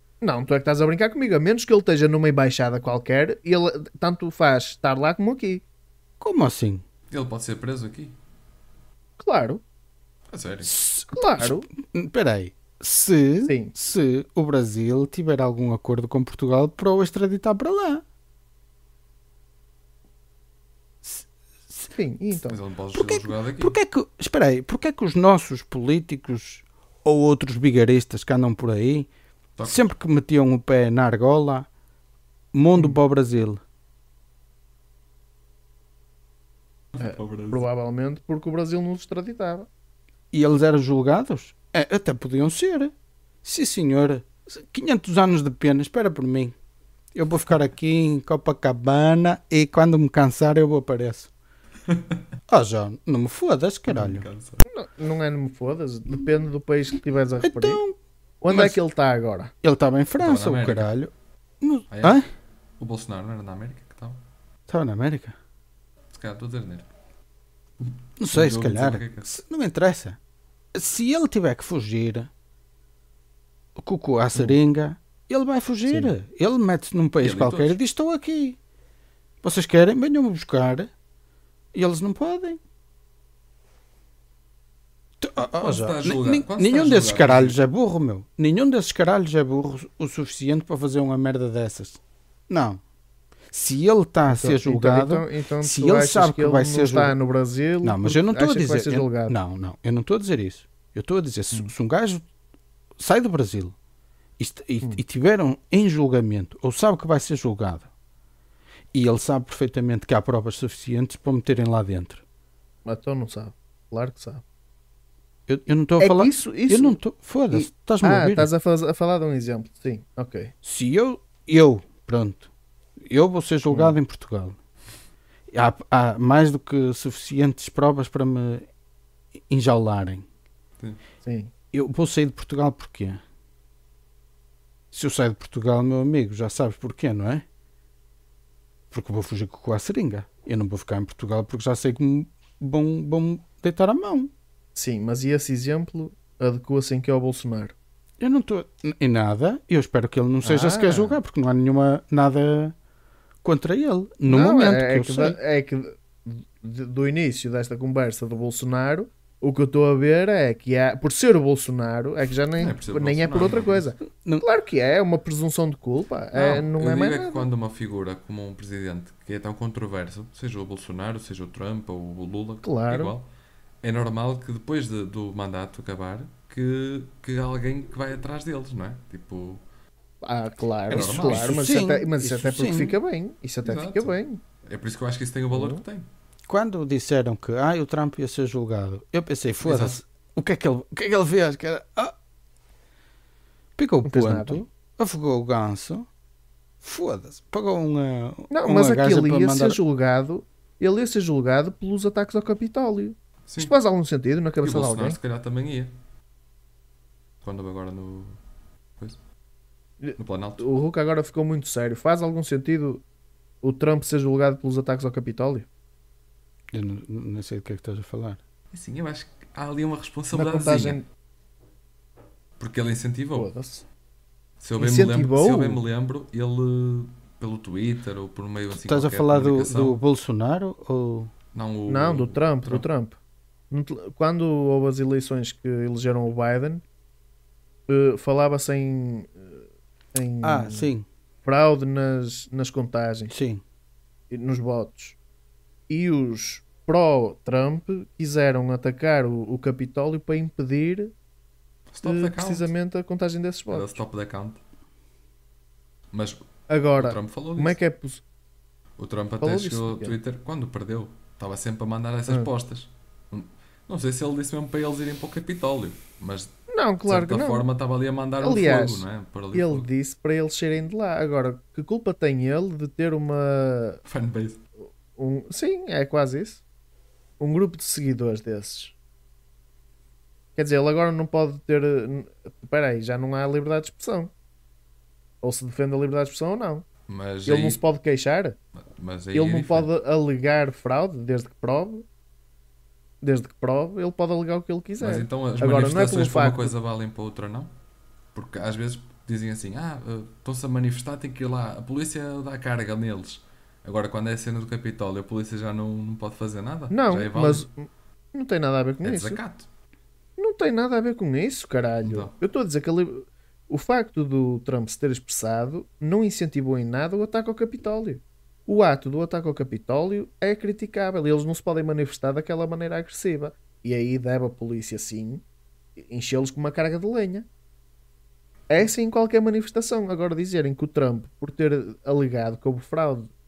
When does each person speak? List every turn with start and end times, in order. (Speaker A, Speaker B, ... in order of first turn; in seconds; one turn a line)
Speaker A: 0.2-5.6
Speaker B: 6.2-6.8
Speaker C: 7.1-8.2
Speaker A: 9.2-9.6
Speaker C: 10.3-10.7
Speaker B: 10.6-18.0
Speaker A: 11.1-11.7
Speaker A: 13.5-13.7
Speaker B: 21.0-21.9
Speaker A: 21.9-22.6
Speaker C: 22.5-23.8
Speaker B: 22.9-29.1
Speaker C: 29.6-29.8
Speaker B: 29.6-31.7
Speaker B: 32.5-33.6
Speaker C: 36.9-37.6
Speaker A: 37.0-39.7
Speaker B: 40.3-42.9
Speaker B: 43.4-46.6
Speaker B: 47.1-51.3
Speaker C: 51.9-52.1
Speaker B: 52.5-54.3
Speaker C: 53.9-54.6
Speaker A: 54.7-57.8
Speaker B: 57.4-58.0
Speaker A: 58.4-59.5
Speaker B: 58.5-58.8
Speaker B: 59.6-62.3
Speaker C: 60.2-60.9
Speaker C: 61.9-62.2
Speaker C: 62.8-64.2
Speaker B: 64.7-65.4
Speaker C: 66.1-66.9
Speaker C: 67.8-69.3
Speaker B: 68.2-70.2
Speaker B: 70.7-72.3
Speaker B: 73.8-78.6
Speaker A: 75.8-76.1
Speaker C: 77.2-77.8
Speaker B: 79.4-80.9
Speaker B: 81.7-82.6
Speaker B: 85.2-92.8
Speaker C: 85.5-87.6
Speaker B: 93.5-97.2
Speaker A: 94.3-99.3
Speaker B: 97.8-102.2
Speaker B: 103.0-103.8
Speaker B: 104.4-107.9
Speaker B: 108.9-112.2
Speaker A: 112.8-114.4
Speaker B: 115.5-118.5
Speaker A: 116.0-117.0
Speaker A: 117.5-120.5
Speaker B: 120.6-122.5
Speaker B: 123.0-124.6
Speaker A: 123.7-124.0
Speaker B: 125.5-128.6
Speaker B: 129.5-130.2
Speaker A: 131.2-131.5
Speaker B: 131.7-133.2
Speaker B: 134.9-137.4
Speaker B: 138.9-144.3
Speaker A: 144.8-147.8
Speaker B: 148.2-152.8
Speaker A: 150.4-151.2
Speaker B: 153.4-155.4
Speaker A: 154.3-167.5
Speaker C: 162.6-163.8
Speaker B: 164.2-164.5
Speaker C: 166.3-173.3
Speaker A: 172.6-173.1
Speaker C: 173.8-179.6
Speaker A: 180.2-184.4
Speaker C: 180.9-181.6
Speaker B: 180.9-183.0
Speaker C: 183.6-186.1
Speaker A: 185.5-185.8
Speaker B: 186.5-192.2
Speaker C: 189.6-190.0
Speaker B: 193.8-196.1
Speaker A: 194.1-194.6
Speaker B: 196.8-199.8
Speaker A: 198.5-205.2
Speaker C: 203.5-203.7
Speaker C: 204.6-205.9
Speaker C: 207.4-208.4
Speaker A: 210.0-213.0
Speaker C: 210.2-210.7
Speaker A: 213.6-215.7
Speaker B: 216.7-218.4
Speaker C: 218.7-221.0
Speaker A: 220.3-221.0
Speaker C: 222.6-223.5
Speaker A: 223.3-223.8
Speaker C: 224.6-230.0
Speaker A: 224.8-225.8
Speaker B: 228.7-231.3
Speaker C: 231.5-232.9
Speaker A: 231.9-233.2
Speaker A: 233.7-236.8
Speaker A: 237.9-239.6
Speaker A: 240.1-240.9
Speaker B: 240.4-241.1
Speaker A: 241.4-243.3
Speaker B: 243.3-243.6
Speaker A: 244.3-245.2
Speaker A: 245.9-251.1
Speaker C: 251.9-252.7
Speaker A: 252.0-254.0
Speaker C: 253.7-254.6
Speaker C: 256.1-256.4
Speaker A: 256.7-258.2
Speaker C: 257.0-257.8
Speaker C: 259.0-269.9
Speaker A: 259.4-260.2
Speaker A: 266.7-267.7
Speaker A: 268.4-274.0
Speaker C: 274.1-274.6
Speaker A: 275.2-276.6
Speaker A: 277.4-278.9
Speaker A: 280.6-284.3
Speaker A: 285.4-286.9
Speaker C: 287.1-287.8
Speaker A: 287.5-288.6
Speaker C: 288.9-289.9
Speaker A: 289.3-292.1
Speaker A: 293.2-296.7
Speaker C: 295.0-297.7
Speaker C: 298.3-307.6
Speaker A: 306.9-309.4
Speaker C: 309.0-309.7
Speaker A: 310.4-325.4
Speaker C: 312.0-312.4
Speaker A: 326.0-327.5
Speaker A: 328.7-333.3